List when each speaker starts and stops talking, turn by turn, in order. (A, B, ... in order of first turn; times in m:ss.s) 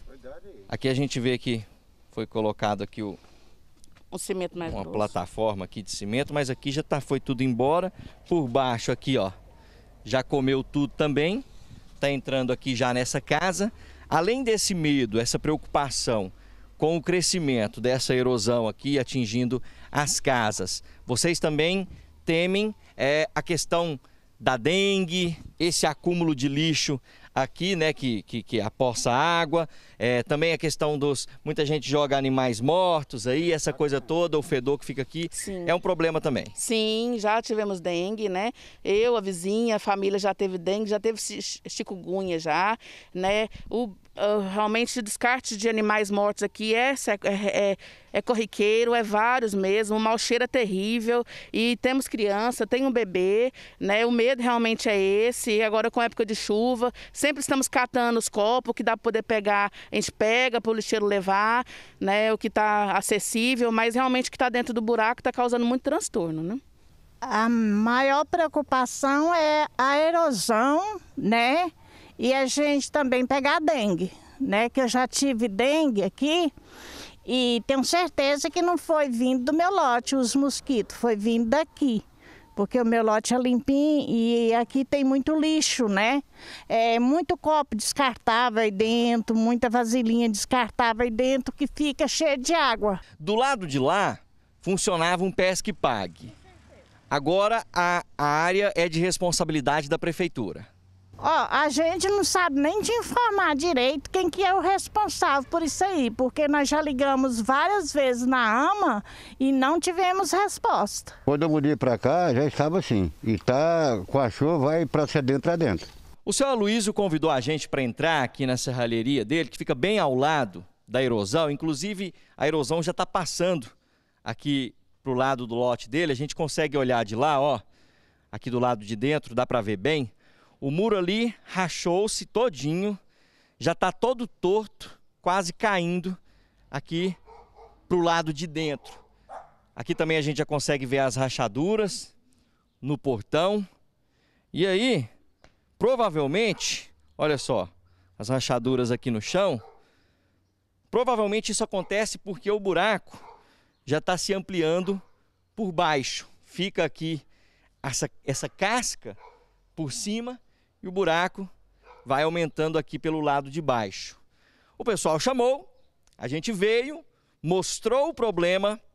0:00.7-0:03.2 A
0:04.1-0:05.1 B
0:04.6-0:09.4 A
0:10.0-0:11.4 A
0:12.0-0:36.5 A
0:35.4-0:35.7 B
0:36.6-1:06.6 B
1:07.2-1:16.5 C
1:17.2-1:22.0 C
1:22.6-1:33.0 C
1:33.2-1:36.3 A
1:37.1-1:40.7 A
1:41.2-1:51.2 C
1:51.2-1:55.9 D
1:56.2-2:03.7 A
2:04.2-2:07.6 A
2:08.3-2:13.0 A
2:13.6-2:16.2 A
2:16.7-2:17.2 A
2:17.9-2:19.0 A
2:19.8-2:22.1 A
2:22.8-2:23.6 A
2:24.5-2:25.1 A
2:25.8-2:29.6 A
2:30.9-2:33.2 A
2:33.8-2:35.0 A
2:35.6-2:37.2 A
2:37.8-2:39.2 A
2:39.8-2:41.5 A
2:42.0-2:44.2 A
2:44.8-2:48.8 A